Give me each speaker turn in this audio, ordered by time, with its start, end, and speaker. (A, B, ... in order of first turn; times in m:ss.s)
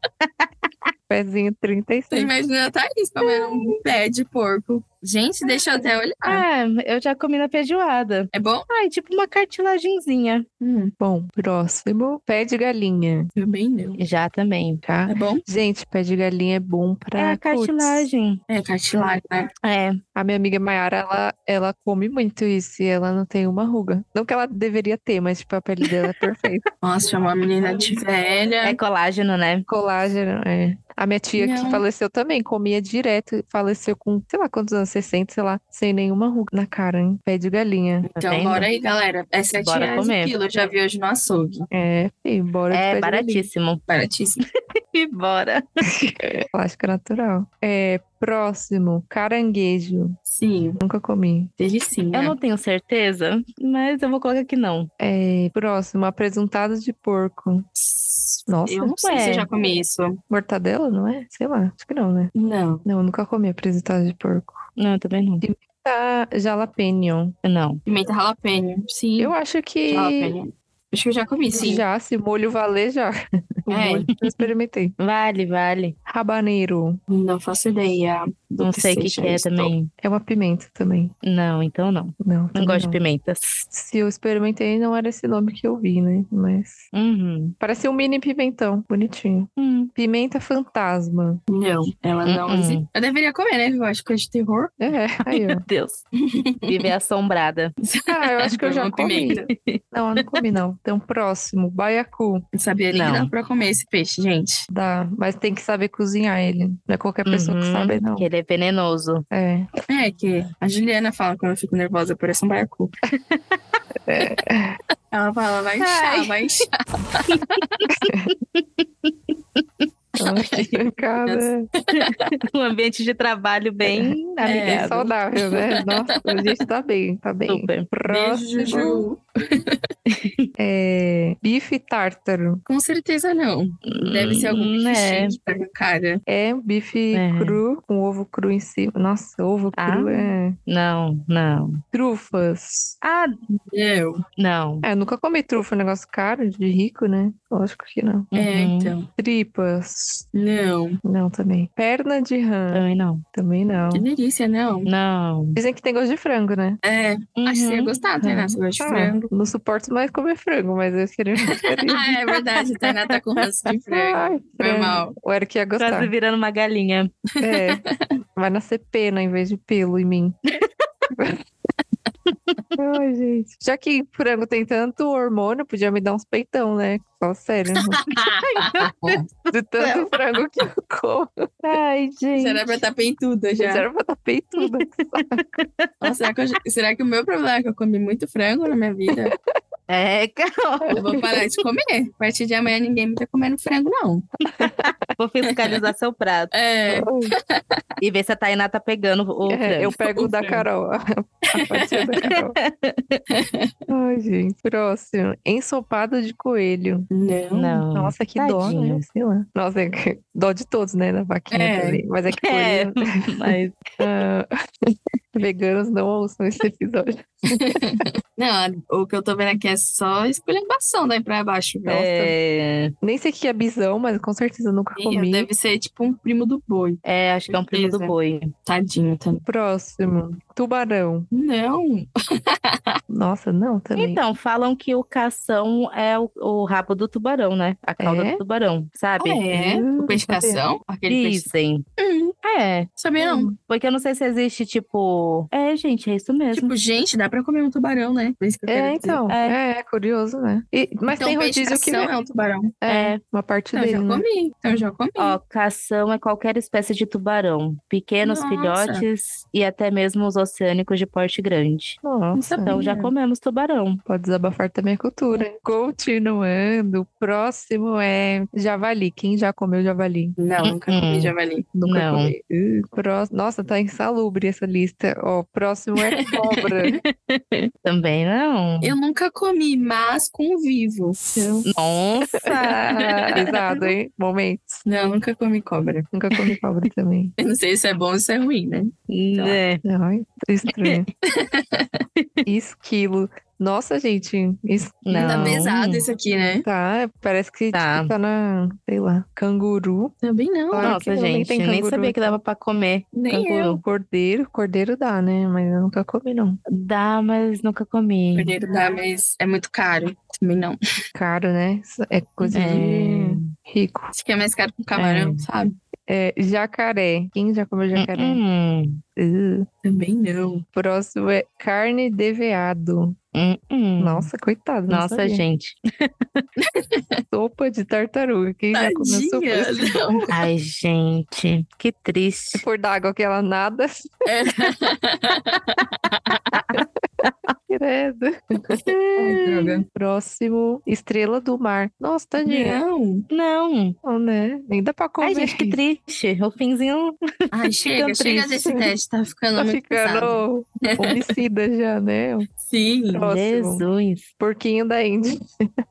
0:00.2-0:00.9 A
0:01.1-0:02.3 B
0:02.1-0:06.4 C
0:06.2-0:10.4 A
0:08.3-0:08.7 C
0:10.6-0:10.9 C
0:11.0-0:13.3 B
0:13.3-0:14.0 C
0:14.0-0:14.8 A
0:14.8-0:18.1 B
0:15.1-0:15.4 C
0:17.2-0:18.4 A
0:18.5-0:19.5 C
0:19.6-0:20.0 A
0:20.1-0:26.6 B
0:26.8-0:28.8 C
0:28.6-0:29.7 A
0:29.7-0:38.1 B
0:31.4-0:31.8 C
0:38.0-0:41.7 C
0:38.2-0:38.7 A
0:39.5-0:40.3 A
0:41.7-0:43.5 B
0:42.7-0:43.8 A
0:43.9-0:44.4 C
0:44.9-0:45.6 A
0:46.0-0:50.2 B
0:50.3-0:50.8 C
0:50.8-0:51.5 B
0:51.6-0:52.4 C
0:52.1-0:54.9 A
0:55.0-0:57.7 B
0:57.8-1:00.2 C
0:58.5-0:58.9 B
0:59.0-0:59.5 A
1:00.3-1:02.3 B
1:02.3-1:02.8 C
1:02.8-1:04.6 B
1:04.8-1:05.4 A
1:05.4-1:07.4 B
1:07.4-1:07.8 A
1:07.8-1:09.3 C
1:09.2-1:10.4 B
1:09.9-1:11.8 C
1:11.5-1:14.9 B
1:13.7-1:14.1 C
1:14.2-1:16.0 A
1:16.0-1:17.0 B
1:17.1-1:19.7 C
1:18.6-1:19.9 A
1:20.0-1:21.1 B
1:21.2-1:23.6 A
1:22.2-1:23.0 B
1:23.7-1:26.9 B
1:26.9-1:27.6 A
1:27.6-1:31.4 B
1:29.6-1:29.9 A
1:31.5-1:34.7 C
1:32.2-1:32.8 A
1:34.8-1:35.6 B
1:35.3-1:36.0 A
1:36.2-1:36.9 C
1:36.7-1:37.7 A
1:37.8-1:39.5 C
1:38.1-1:39.4 B
1:39.9-1:42.4 B
1:42.5-1:44.7 C
1:42.9-1:43.3 A
1:44.7-1:48.3 B
1:47.2-1:49.2 A
1:49.3-1:49.7 B
1:49.9-1:53.0 C
1:53.1-1:53.8 A
1:54.1-1:54.8 B
1:55.1-1:57.7 C
1:55.8-1:56.3 A
1:57.3-1:59.6 A
1:58.1-1:58.3 B
2:00.2-2:01.7 B
2:00.2-2:02.3 C
2:01.9-2:05.1 A
2:03.8-2:09.1 B
2:04.4-2:06.5 C
2:07.5-2:07.9 A
2:08.1-2:09.8 C
2:10.1-2:10.5 A
2:10.6-2:12.6 B
2:12.7-2:16.2 C
2:13.9-2:15.4 A
2:16.3-2:20.6 B
2:17.1-2:17.6 A
2:19.7-2:21.8 A
2:21.9-2:23.0 B
2:23.0-2:23.3 A
2:23.5-2:24.2 C
2:24.4-2:24.8 A
2:24.8-2:28.3 B
2:28.3-2:28.9 A
2:28.3-2:29.1 C
2:29.2-2:30.2 B
2:30.3-2:31.0 C
2:31.0-2:34.0 B
2:32.7-2:33.2 A
2:33.9-2:34.9 C
2:34.8-2:35.6 A
2:35.6-2:36.8 B
2:36.8-2:39.2 C
2:37.4-2:37.9 A
2:38.2-2:42.2 B
2:41.5-2:45.1 C
2:43.9-2:46.1 B
2:45.8-2:47.1 A
2:47.4-2:48.0 C
2:47.4-2:47.8 B
2:48.3-2:50.4 B
2:50.6-2:50.8 A
2:51.1-2:51.4 B
2:52.8-2:58.0 B
2:57.9-2:59.2 C
2:58.2-3:00.1 A
2:59.5-3:01.5 B
3:01.6-3:02.8 A
3:02.4-3:03.9 C
3:03.6-3:05.4 B
3:04.6-3:06.1 A
3:06.0-3:09.4 C
3:09.9-3:11.0 A
3:10.8-3:11.4 B
3:10.9-3:14.2 C
3:14.5-3:16.5 A
3:14.6-3:15.1 B
3:15.5-3:15.9 C
3:16.5-3:17.6 C
3:16.9-3:17.3 B
3:18.0-3:20.0 A
3:19.5-3:22.6 B
3:20.0-3:20.6 C
3:21.6-3:22.1 C
3:22.3-3:23.2 A
3:23.3-3:23.7 C
3:23.9-3:27.1 B
3:27.1-3:27.8 C
3:27.5-3:29.0 A
3:27.9-3:34.5 B
3:31.5-3:32.0 C
3:32.3-3:33.9 A
3:35.3-3:37.8 B
3:37.5-3:42.3 C
3:41.9-3:42.9 A
3:43.0-3:45.5 B
3:45.0-3:49.4 C
3:47.0-3:48.5 A
3:49.4-3:51.3 B
3:51.3-3:53.0 C
3:53.1-3:54.2 B
3:54.0-3:59.4 A
3:58.0-3:58.4 B
3:59.2-4:02.3 C
3:59.5-4:00.6 B
4:01.1-4:01.8 A
4:02.4-4:02.9 A
4:03.0-4:03.5 C
4:03.2-4:03.6 B
4:03.6-4:06.7 A
4:06.5-4:09.2 C
4:08.7-4:12.1 B
4:09.3-4:09.5 A
4:11.1-4:12.7 C
4:12.8-4:14.2 B
4:12.9-4:13.2 A
4:13.7-4:15.4 C
4:15.2-4:22.0 A
4:18.2-4:19.1 C
4:22.0-4:22.8 B
4:22.3-4:23.1 C
4:22.7-4:24.0 A
4:24.0-4:30.4 B
4:30.4-4:31.7 C
4:30.6-4:31.3 A
4:31.7-4:37.0 B
4:31.8-4:32.3 A
4:36.2-4:37.0 C
4:37.2-4:39.0 A
4:38.8-4:41.7 C
4:41.7-4:43.4 A
4:42.4-4:44.8 B
4:44.8-4:46.1 C
4:46.1-4:47.3 B
4:47.4-4:49.6 C
4:49.1-4:49.8 A
4:49.8-4:51.1 B
4:51.3-4:52.0 C
4:52.2-4:52.4 A
4:52.4-4:55.6 B
4:55.1-4:56.0 A
4:55.2-4:56.6 C
4:56.6-5:00.1 B
4:57.7-4:58.1 A
5:00.2-5:01.0 C
5:00.7-5:02.3 B
5:00.8-5:03.8 A
5:03.1-5:03.8 C
5:03.8-5:06.6 B
5:06.7-5:08.5 A
5:08.3-5:10.8 C
5:11.1-5:14.1 B
5:12.5-5:12.9 C
5:12.5-5:13.5 A
5:14.1-5:15.8 C
5:15.0-5:15.4 A
5:16.1-5:18.4 B
5:17.9-5:19.0 A
5:19.1-5:19.7 B
5:19.8-5:20.6 C
5:20.7-5:23.2 B
5:23.3-5:24.3 A
5:24.0-5:25.4 B
5:24.9-5:26.4 A
5:26.6-5:27.2 C
5:27.3-5:30.2 B
5:28.7-5:30.3 C
5:30.3-5:32.6 A
5:32.5-5:34.7 B
5:34.2-5:36.6 C
5:36.5-5:37.5 A
5:37.7-5:42.8 B
5:39.2-5:39.8 C
5:42.4-5:43.3 C
5:43.3-5:44.0 A
5:44.0-5:45.8 B
5:45.2-5:48.7 A
5:47.5-5:51.4 C
5:48.6-5:48.9 B
5:49.6-5:52.5 B
5:52.6-5:53.3 C
5:53.1-5:53.8 B
5:53.2-5:54.3 A
5:54.4-5:55.7 B